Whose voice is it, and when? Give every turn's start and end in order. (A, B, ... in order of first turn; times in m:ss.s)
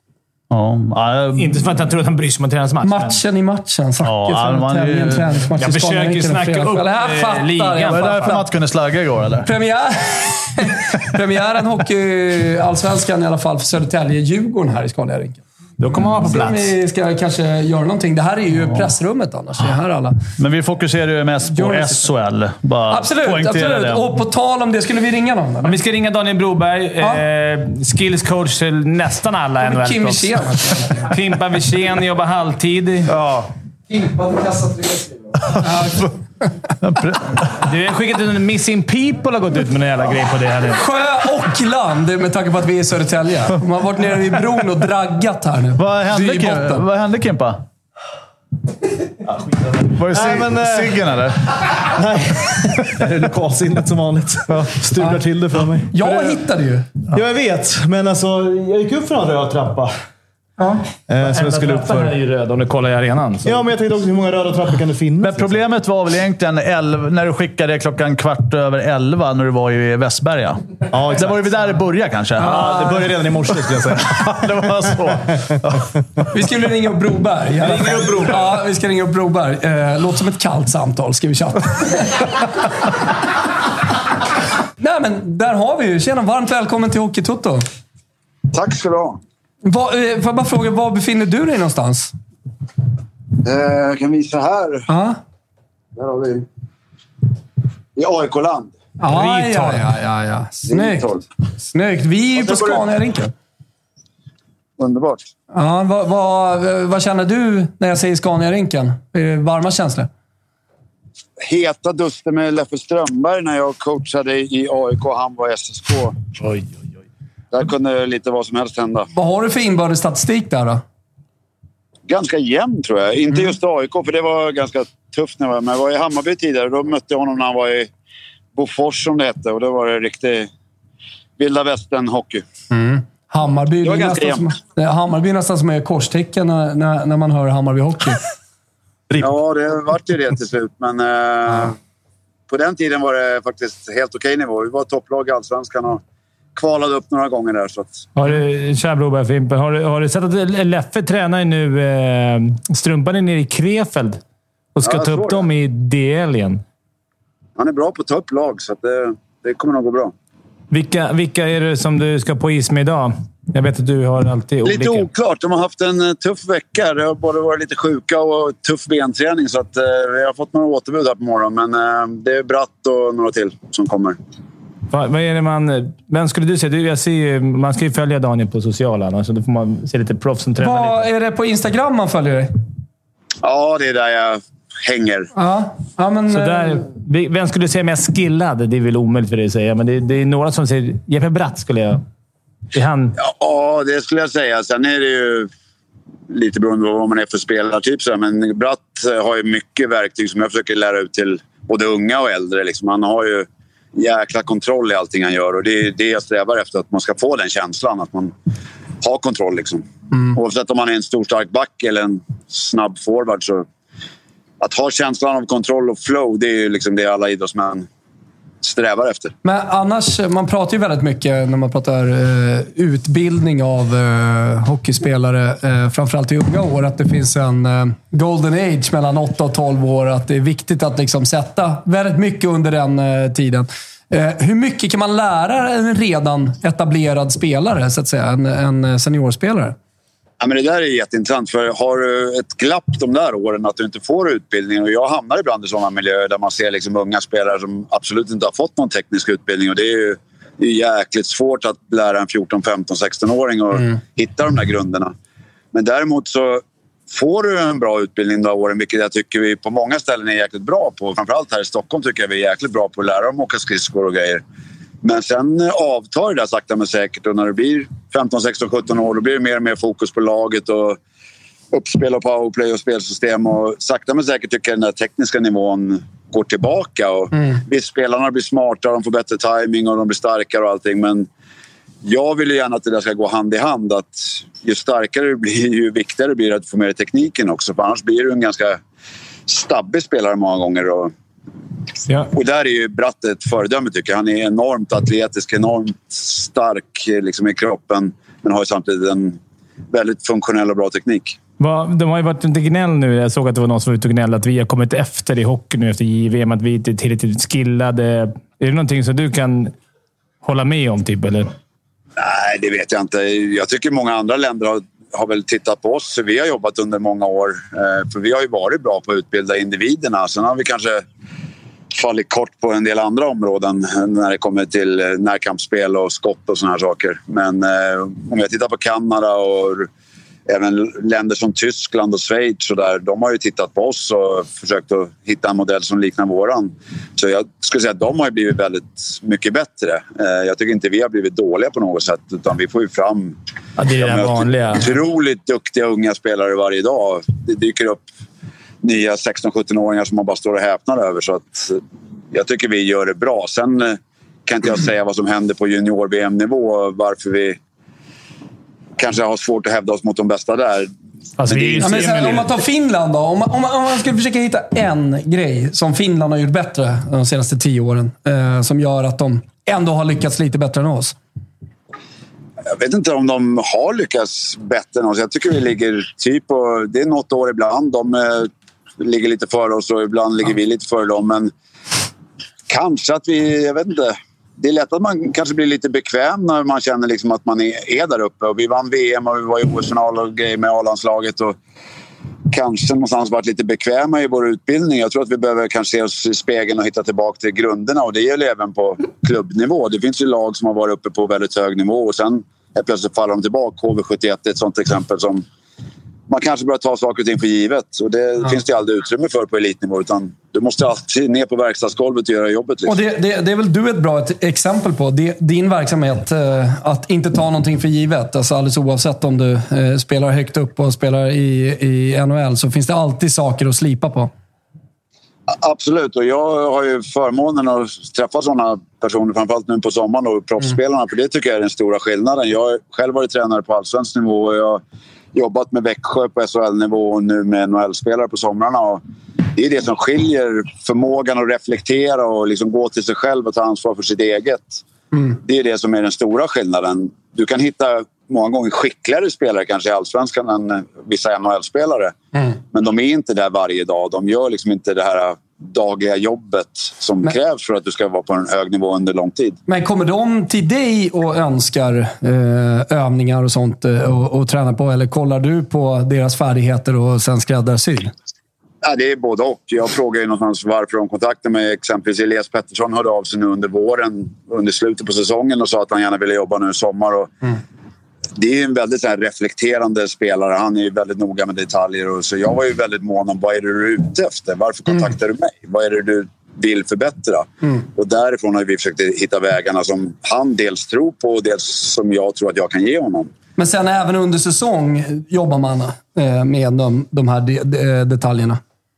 0:00.5-0:01.6 A
0:01.4-0:03.2 B
0:02.8-0:08.4 C
0:04.0-0:05.4 A
0:05.6-0:08.4 B
0:07.9-0:09.5 A
0:09.4-0:15.4 C
0:15.8-0:16.7 B
0:16.2-0:20.2 C
0:20.4-0:24.1 A
0:21.5-0:22.0 C
0:22.9-0:25.8 C
0:25.6-0:30.3 B
0:29.6-0:31.1 C
0:31.0-0:33.1 B
0:33.1-0:33.5 A
0:35.6-0:36.1 C
0:36.8-0:37.5 A
0:37.6-0:40.8 B
0:40.8-0:46.8 C
0:45.8-0:47.6 A
0:49.9-0:51.0 D
0:49.9-0:51.6 A
0:51.9-0:55.9 D
0:54.5-0:54.8 A
0:55.9-0:56.9 C
0:57.1-0:59.9 D
1:00.6-1:00.9 C
1:01.1-1:02.1 D
1:01.3-1:03.7 B
1:03.4-1:05.6 D
1:05.2-1:12.7 A
1:10.9-1:11.4 D
1:12.4-1:13.1 C
1:12.4-1:14.4 D
1:13.8-1:15.8 A
1:16.3-1:22.3 C
1:17.6-1:18.5 B
1:24.8-1:27.6 C
1:28.5-1:29.2 E
1:29.6-1:32.1 C
1:33.4-1:34.9 E
1:34.9-1:35.2 C
1:36.0-1:36.5 E
1:38.0-1:38.7 E
1:39.0-1:41.1 C
1:39.1-1:39.8 B
1:40.7-1:41.3 E
1:41.7-1:43.3 C
1:42.4-1:42.8 E
1:44.8-1:45.2 E
1:45.5-1:50.1 C
1:51.4-1:56.2 E
1:56.4-1:56.8 B
1:57.5-1:59.1 E
1:59.2-2:00.8 C
2:02.1-2:07.9 E
2:08.6-2:10.5 E
2:11.4-2:12.4 E
2:12.7-2:18.2 C
2:13.8-2:14.4 E
2:19.2-2:21.8 E
2:22.5-2:26.0 E
2:26.6-2:28.0 E
2:28.2-2:34.2 B
2:34.8-2:36.6 B
2:34.8-2:35.4 E
2:37.6-2:40.1 E
2:40.7-2:45.1 B
2:44.6-2:54.2 E
2:54.9-3:01.0 B
3:00.6-3:02.5 C
3:03.4-3:05.3 E
3:05.4-3:06.8 C
3:06.3-3:12.0 B
3:12.7-3:13.2 B
3:13.2-3:15.5 E
3:16.3-3:28.3 E
3:29.0-3:33.7 E
3:34.6-3:37.9 E
3:38.6-3:39.3 E
3:39.4-3:59.8 C
4:00.4-4:15.1 E
4:15.7-4:24.4 E
4:25.0-4:31.0 E
4:31.7-4:41.3 E
4:42.0-4:48.8 E
4:49.5-4:51.1 E
4:52.3-4:59.4 E
4:59.9-5:01.4 E
5:01.6-5:09.7 B
5:10.4-5:11.5 B
5:12.2-5:21.0 E
5:21.9-5:29.9 E
5:30.5-5:43.4 E
5:43.8-5:45.0 B
5:44.0-5:48.0 E
5:48.8-5:51.8 E
5:52.3-5:57.6 E
5:59.0-6:00.9 E
6:01.4-6:02.5 B
6:01.5-6:02.4 E
6:01.8-6:11.2 C
6:12.8-6:21.5 E
6:22.7-6:31.6 E
6:32.5-6:45.4 E
6:46.3-6:53.0 E
6:52.9-7:04.3 C
7:05.5-7:14.8 E
7:15.3-7:19.0 E
7:19.6-7:24.8 E
7:25.4-7:32.1 E
7:32.7-7:39.6 E
7:39.7-7:48.1 C
7:48.8-7:57.3 E
7:58.4-8:13.3 E
8:13.6-8:18.6 C